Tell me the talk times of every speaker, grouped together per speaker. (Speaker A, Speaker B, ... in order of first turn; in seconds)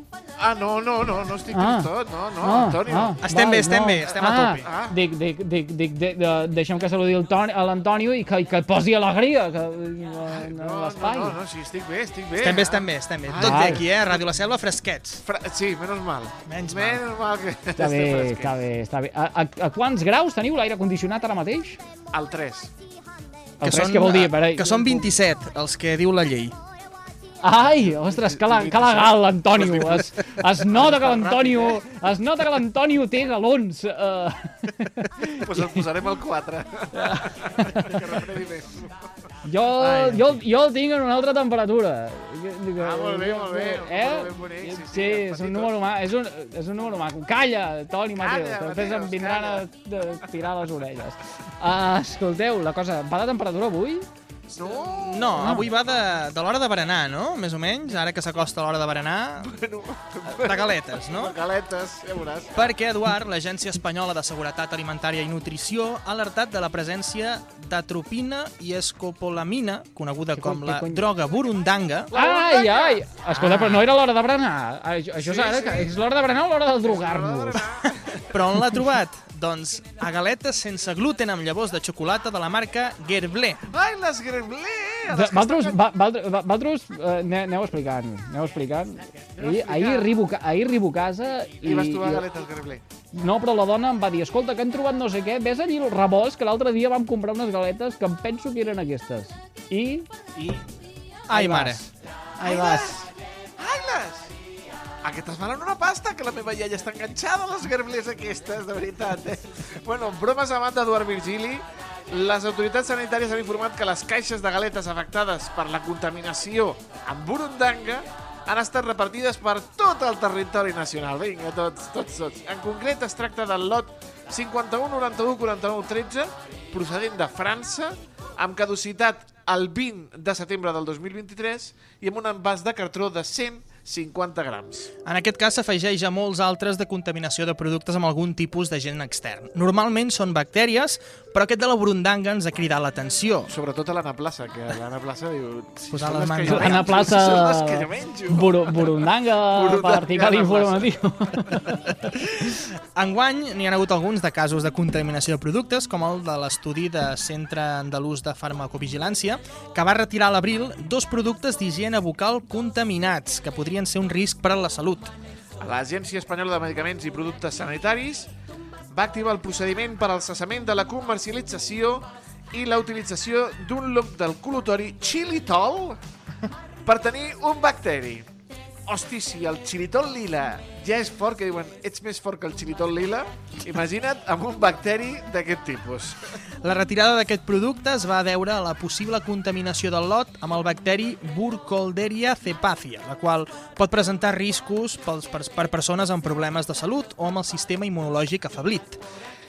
Speaker A: 0.4-3.2, 4.1-4.9, 10.3-14.2, 15.2-18.5, 22.1-22.7, 28.1-31.8, 35.4-39.0, 42.8-45.7, 48.2-49.6, 54.5-55.7, 59.4-62.7, 72.1-73.0, 75.2-75.9, 76.8-78.3, 83.7-85.8, 89.3-90.1, 91.6-92.8, 100.3-100.7, 102.4-104.3, 105.0-134.9, 143.5-150.9, 165.6-168.3, 168.9-176.0, 176.8-178.3, 178.9-186.2
Speaker B: 1.5-11.4, 13.4-13.8, 17.8-21.8, 23.6-25.1, 27.4-35.8, 36.9-38.0, 39.4-54.1, 55.4-55.7, 70.3-71.0, 72.1-77.7, 85.1-92.2, 93.1-100.1, 101.3-101.8, 102.4-102.9, 146.4-151.8
Speaker C: 3.2-4.6, 12.4-15.2, 16.4-17.0, 23.6-26.6, 54.9-59.5, 60.3-61.4, 62.5-72.1, 73.3-73.8, 78.3-83.6, 101.3-101.8, 102.5-102.8, 135.0-143.5, 145.9-147.1, 152.4-165.1, 186.6-199.0